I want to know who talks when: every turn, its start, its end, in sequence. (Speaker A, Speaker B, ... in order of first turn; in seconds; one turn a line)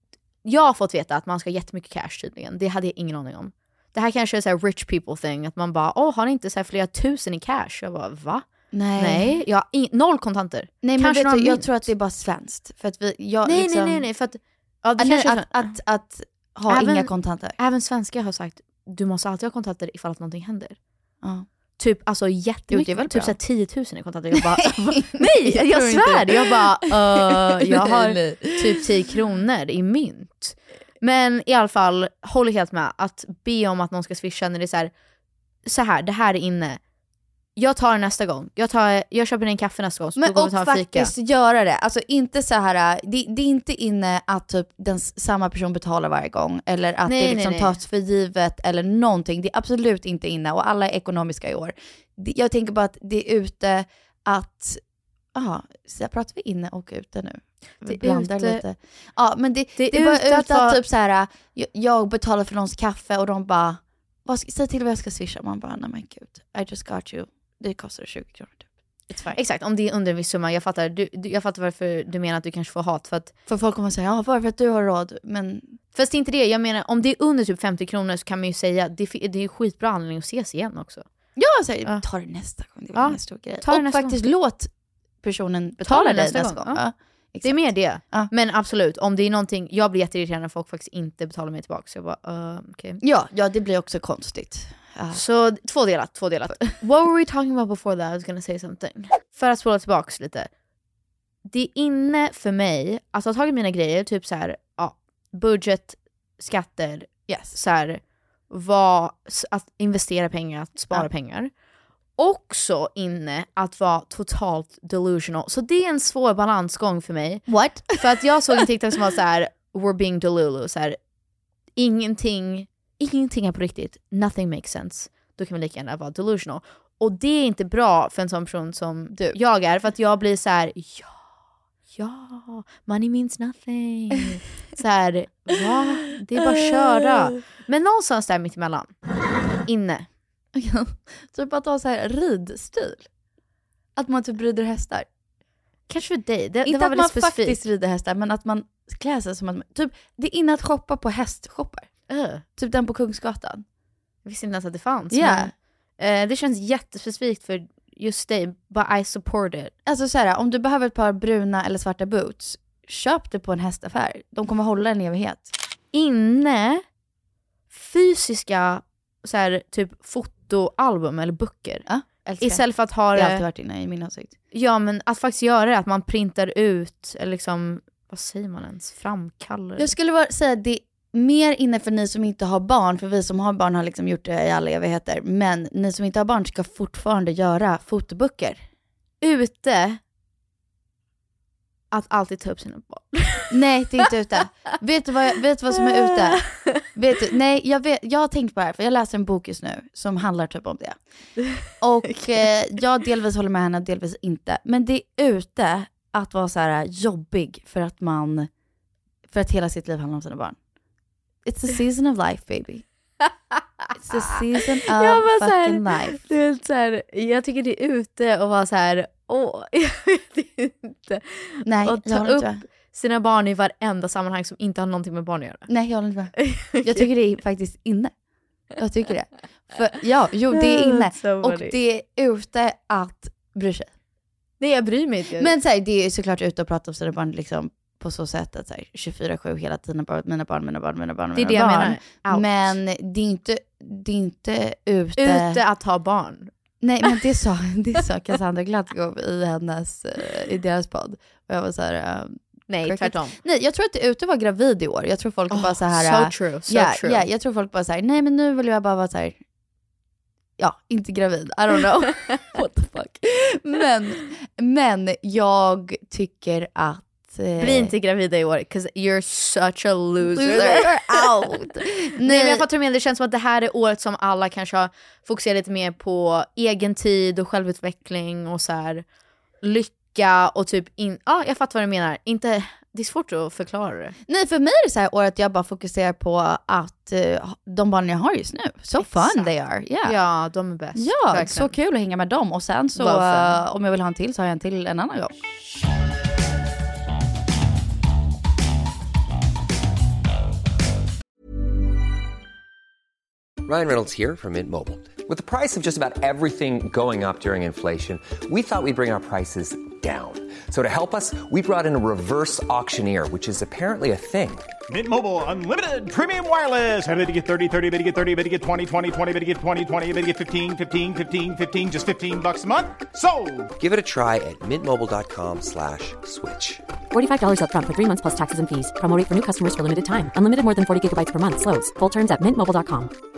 Speaker A: 0.4-11.9
Speaker B: 8.7-9.4
Speaker B: 10.8-14.0
Speaker A: 13.4-15.7
Speaker B: 15.0-17.6
Speaker A: 16.7-20.8
Speaker A: 21.8-34.9
Speaker B: 22.7-23.3
Speaker B: 24.4-28.8
Speaker A: 35.6-36.8
Speaker A: 37.5-41.1
Speaker B: 40.2-54.8
Speaker A: 47.0-47.8
Speaker B: 55.3-69.4
Speaker A: 57.8-58.6
Speaker A: 59.8-60.8
Speaker A: 69.3-73.3
Speaker B: 73.5-75.8
Speaker A: 75.9-81.0
Speaker B: 81.4-84.7
Speaker A: 82.9-84.2
Speaker B: 85.2-88.3
Speaker A: 85.8-86.8
Speaker A: 87.4-93.0
Speaker B: 93.0-95.2
Speaker A: 95.1-100.5
Speaker A: 101.5-111.5
Speaker B: 107.3-107.6
Speaker A: 112.2-121.0
Speaker B: 117.5-118.0
Speaker A: 121.8-131.1
Speaker B: 129.1-129.4
Speaker A: 131.9-138.9
Speaker B: 136.5-137.2
Speaker A: 139.7-140.1
Speaker B: 140.5-143.1
Speaker B: 143.9-145.1
Speaker A: 145.9-147.6
Speaker B: 146.6-151.9
Speaker A: 152.1-152.4
Speaker B: 152.6-153.6
Speaker A: 154.2-159.7
Speaker B: 155.1-155.5
Speaker B: 159.8-165.5
Speaker A: 165.9-166.8
Speaker A: 167.7-171.9
Speaker B: 171.9-172.6
Speaker A: 172.4-173.4
Speaker B: 173.1-174.3
Speaker A: 174.5-179.9
Speaker B: 179.8-188.6
Speaker A: 189.2-190.0
Speaker A: 191.9-194.1
Speaker B: 193.5-196.4
Speaker A: 195.8-196.8
Speaker B: 196.9-201.0
Speaker B: 201.8-208.5
Speaker A: 202.1-202.5
Speaker B: 209.3-210.6
Speaker B: 211.4-212.8
Speaker B: 213.9-216.2
Speaker A: 214.9-225.7
Speaker B: 221.7-222.6
Speaker B: 225.7-228.1
Speaker A: 226.4-227.1
Speaker B: 228.8-233.9
Speaker A: 230.5-231.7
Speaker A: 234.6-235.5
Speaker B: 235.4-245.6
Speaker A: 241.3-242.8
Speaker A: 245.2-246.5
Speaker B: 246.8-259.4
Speaker A: 252.7-253.4
Speaker A: 255.5-257.2
Speaker B: 260.6-267.9
Speaker A: 267.6-271.2
Speaker B: 270.2-272.6
Speaker A: 272.2-279.0
Speaker A: 279.6-284.1
Speaker B: 284.3-290.1
Speaker A: 289.0-289.5
Speaker A: 290.0-291.7
Speaker B: 290.9-295.3
Speaker A: 292.9-293.6
Speaker C: 303.6-314.7
Speaker D: 314.9-323.7
Speaker C: 323.8-326.8
Speaker E: 327.1-333.1